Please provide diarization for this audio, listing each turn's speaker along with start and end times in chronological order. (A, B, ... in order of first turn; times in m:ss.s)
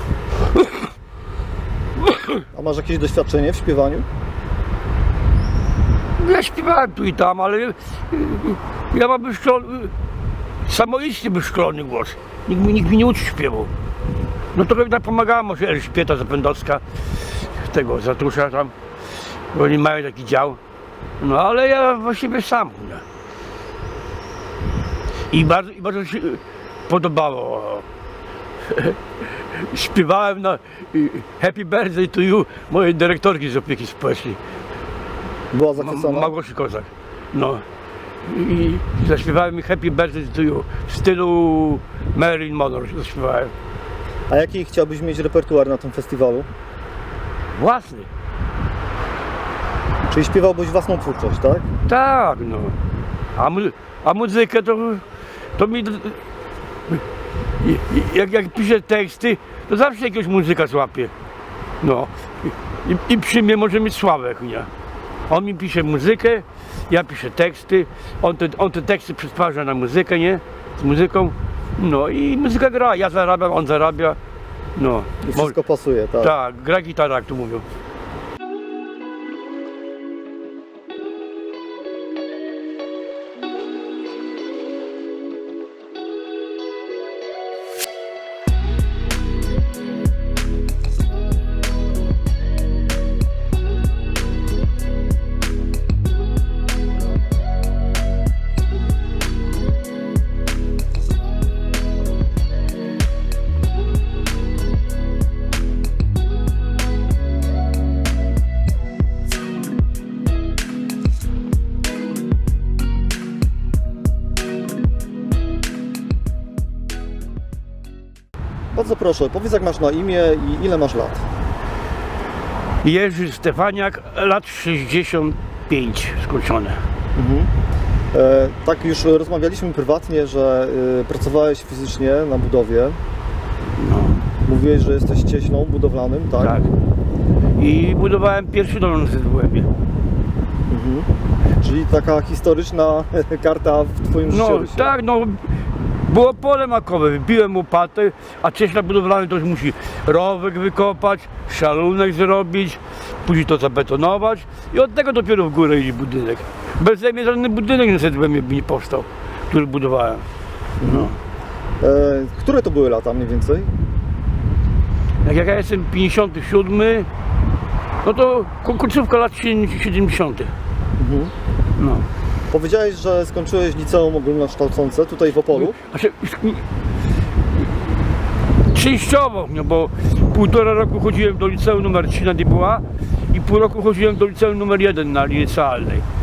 0:00.5-0:00.8 A
0:02.0-0:02.4 A
0:02.5-0:04.0 B
0:06.2-0:09.9 A
0:10.6-0:13.7 A
0:14.5-0:18.7 A
0:19.5-0:20.6 A
0:21.2-0:23.0 A
0:25.3-0:27.8 A
0:28.7-0:34.4 A
0:35.5-0:36.3 B
0:35.8-0:37.6 A
0:38.2-0:43.5 A
0:44.3-0:46.5 B
0:47.5-0:48.1 A
0:50.1-0:51.6 B
0:51.8-0:52.8 A
0:53.4-0:55.0 A
0:55.6-0:56.2 A
0:57.6-1:01.1 A
1:01.8-1:04.7 A
1:05.3-1:14.2 A
1:14.8-1:15.6 A
1:15.2-1:16.3 B
1:16.2-1:17.6 A
1:58.7-2:01.2 B
2:02.8-2:06.8 A
2:07.2-2:07.5 B
2:08.1-2:13.0 B
2:13.8-2:14.2 A
2:14.4-2:16.6 B
2:16.4-2:16.7 A
2:17.6-2:19.7 A
2:20.7-2:21.1 B
2:21.6-2:24.9 B
2:24.2-2:25.5 A
2:26.0-2:40.2 A
2:40.8-2:41.1 B
2:40.8-2:41.2 A
2:41.8-2:43.7 B
2:45.2-2:47.1 A
2:48.0-2:50.5 A
2:51.0-2:51.3 B
2:51.8-2:52.0 A
2:52.5-2:55.8 B
2:55.5-2:56.6 A
2:58.7-3:06.0 A